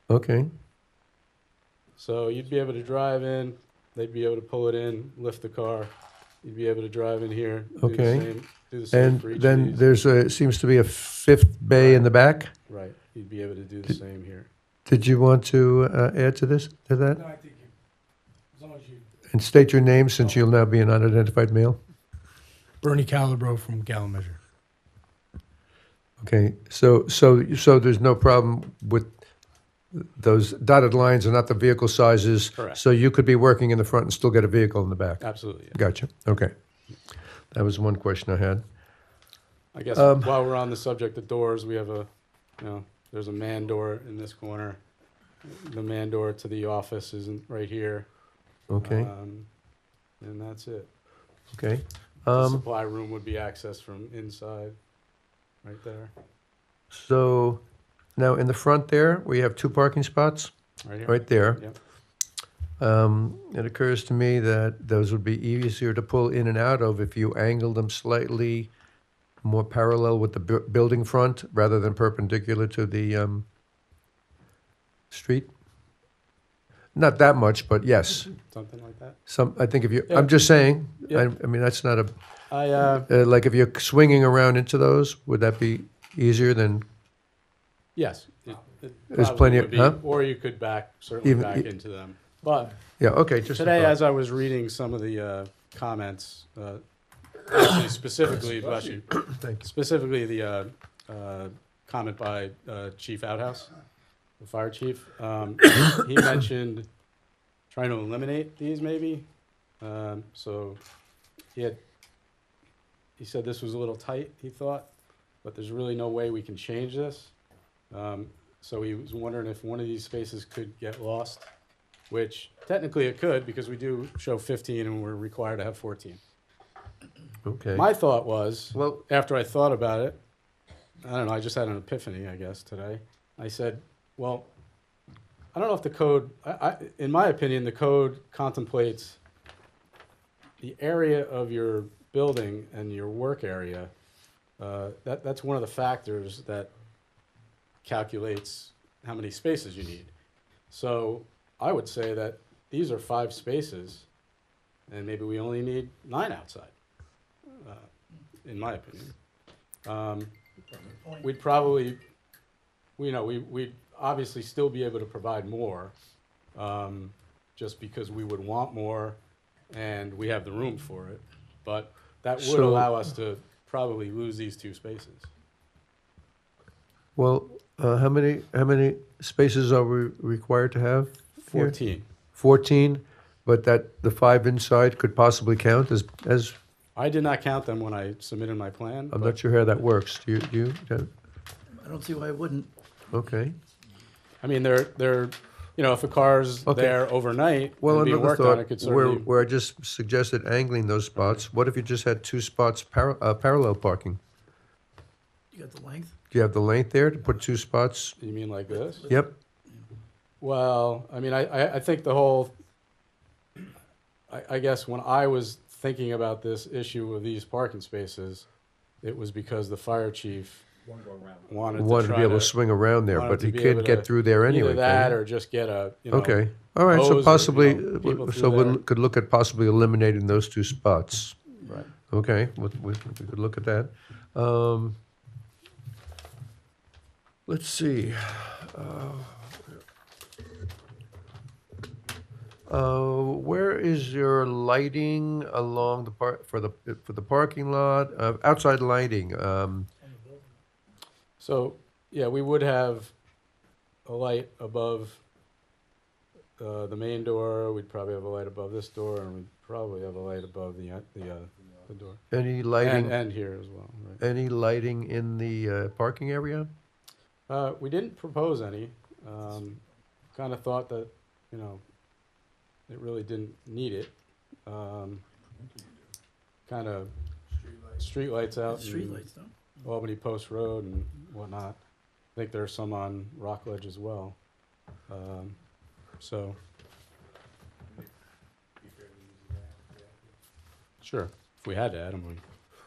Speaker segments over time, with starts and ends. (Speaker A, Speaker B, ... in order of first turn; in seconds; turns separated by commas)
Speaker A: 0.1-0.5, Speaker B: 2.0-5.9, Speaker B: 6.4-9.9, Speaker A: 7.8-8.3, Speaker A: 8.9-12.5, Speaker B: 11.8-12.1, Speaker B: 12.7-14.5, Speaker A: 14.9-17.2, Speaker C: 17.3-17.7, Speaker C: 18.6-19.0, Speaker A: 19.3-21.8, Speaker C: 22.8-24.4, Speaker A: 26.2-29.2, Speaker A: 29.9-36.5, Speaker B: 35.2-35.8, Speaker A: 37.5-38.6, Speaker B: 39.7-44.8, Speaker A: 39.9-40.4, Speaker B: 45.4-48.1, Speaker A: 48.7-49.1, Speaker B: 48.8-49.5, Speaker B: 50.2-50.9, Speaker A: 51.5-52.6, Speaker B: 52.3-54.8, Speaker B: 55.6-56.1, Speaker A: 56.9-57.6, Speaker A: 58.2-60.5, Speaker B: 60.8-61.8, Speaker A: 61.0-61.6, Speaker A: 62.8-68.7, Speaker A: 69.4-73.5, Speaker A: 75.1-75.5, Speaker A: 77.0-78.3, Speaker B: 78.5-79.2, Speaker A: 79.3-82.2, Speaker B: 80.1-80.5, Speaker B: 82.5-83.1, Speaker A: 83.1-86.8, Speaker B: 88.0-92.8, Speaker A: 89.1-90.0, Speaker A: 91.2-91.7, Speaker A: 93.0-94.0, Speaker B: 93.5-96.8, Speaker B: 97.5-103.7, Speaker A: 98.5-99.6, Speaker B: 104.4-106.9, Speaker B: 107.7-109.3, Speaker B: 109.8-110.8, Speaker B: 111.5-111.8, Speaker B: 113.2-114.9, Speaker B: 115.4-117.3, Speaker B: 117.9-121.5, Speaker B: 122.1-126.2, Speaker A: 127.5-127.9, Speaker B: 127.7-130.2, Speaker A: 128.7-129.0, Speaker B: 131.0-134.5, Speaker B: 135.5-139.2, Speaker B: 140.6-143.9, Speaker B: 144.6-146.7, Speaker B: 147.8-150.1, Speaker B: 150.7-154.1, Speaker B: 154.9-156.7, Speaker B: 157.5-157.9, Speaker B: 158.4-159.1, Speaker B: 159.8-160.3, Speaker B: 161.2-162.0, Speaker B: 163.0-165.9, Speaker B: 166.6-169.2, Speaker B: 169.7-175.3, Speaker A: 172.4-172.9, Speaker A: 177.2-181.8, Speaker B: 181.5-182.1, Speaker A: 182.4-186.6, Speaker B: 187.0-189.4, Speaker A: 189.1-191.1, Speaker D: 191.7-192.7, Speaker A: 193.1-193.6, Speaker B: 194.4-199.3, Speaker A: 196.7-197.1, Speaker A: 197.8-204.2, Speaker B: 201.2-201.4, Speaker D: 205.5-206.2, Speaker A: 206.3-208.2, Speaker B: 208.2-209.1, Speaker D: 208.9-209.2, Speaker A: 209.1-209.3, Speaker B: 210.4-212.5, Speaker B: 214.3-218.5, Speaker B: 219.0-220.7, Speaker C: 221.0-221.4, Speaker B: 221.4-222.5, Speaker A: 221.8-225.2, Speaker B: 223.1-228.8, Speaker A: 226.1-231.5, Speaker B: 231.6-231.9, Speaker A: 232.1-235.0, Speaker A: 237.5-239.8, Speaker A: 242.7-249.9, Speaker B: 251.4-253.1, Speaker B: 254.1-255.2, Speaker B: 256.6-262.2, Speaker A: 262.3-263.2, Speaker B: 262.8-264.2, Speaker A: 264.2-266.7, Speaker B: 267.5-269.8, Speaker B: 270.3-271.8, Speaker B: 272.9-274.1, Speaker B: 274.7-275.2, Speaker B: 276.7-277.1, Speaker B: 277.8-279.3, Speaker D: 278.7-279.5, Speaker B: 279.8-281.8, Speaker B: 282.4-284.4, Speaker B: 285.1-285.6, Speaker B: 286.2-286.6, Speaker C: 288.9-289.9, Speaker B: 291.0-292.4